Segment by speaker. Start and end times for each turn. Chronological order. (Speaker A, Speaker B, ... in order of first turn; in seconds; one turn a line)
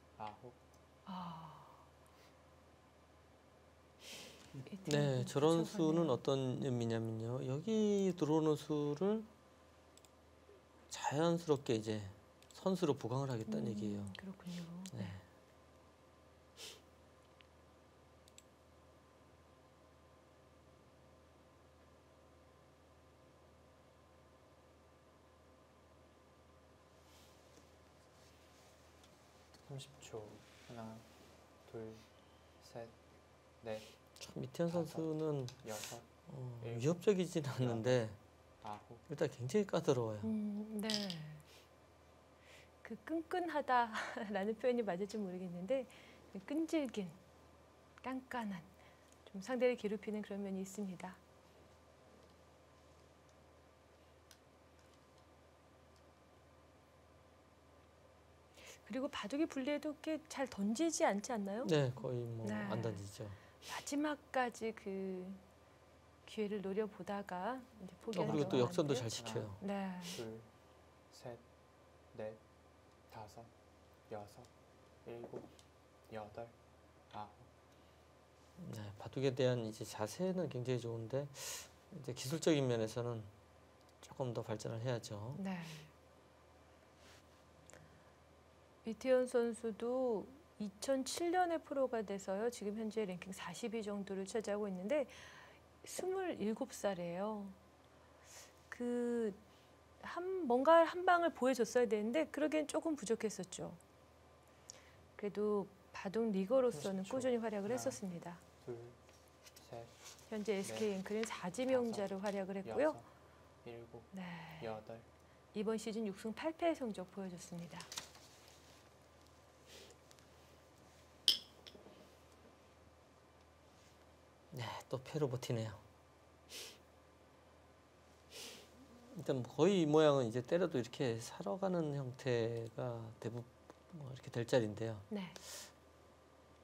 Speaker A: 0.2-0.6
Speaker B: 1.1-1.8
Speaker B: 4.7-6.2
Speaker C: 4.8-9.3
Speaker C: 10.9-14.2
Speaker B: 13.5-15.2
Speaker C: 14.9-15.2
Speaker A: 29.6-31.1
Speaker A: 31.6-32.0
Speaker A: 32.6-33.0
Speaker A: 33.6-33.9
Speaker C: 34.2-35.6
Speaker A: 34.7-36.1
Speaker C: 36.3-38.2
Speaker A: 36.6-38.0
Speaker A: 38.6-39.0
Speaker C: 39.1-40.3
Speaker B: 40.2-41.4
Speaker B: 42.8-47.2
Speaker B: 48.0-51.2
Speaker B: 58.7-61.7
Speaker C: 61.6-63.4
Speaker B: 62.4-63.0
Speaker B: 63.6-65.4
Speaker B: 66.3-70.2
Speaker C: 68.1-69.6
Speaker A: 68.2-70.5
Speaker A: 71.1-71.4
Speaker A: 72.1-72.4
Speaker A: 73.1-73.5
Speaker A: 74.1-74.5
Speaker A: 75.0-75.5
Speaker A: 76.1-76.6
Speaker A: 77.1-77.5
Speaker C: 78.6-83.3
Speaker C: 84.0-85.4
Speaker B: 85.4-85.9
Speaker B: 88.8-97.6
Speaker B: 98.7-99.4
Speaker B: 100.0-103.8
Speaker B: 105.2-108.4
Speaker A: 106.7-108.0
Speaker A: 108.6-109.0
Speaker A: 109.6-110.0
Speaker B: 110.3-113.0
Speaker A: 110.6-110.9
Speaker A: 111.7-113.1
Speaker A: 113.6-115.1
Speaker B: 114.1-114.8
Speaker B: 115.5-117.9
Speaker C: 124.5-125.8
Speaker C: 129.1-135.6
Speaker B: 135.1-135.4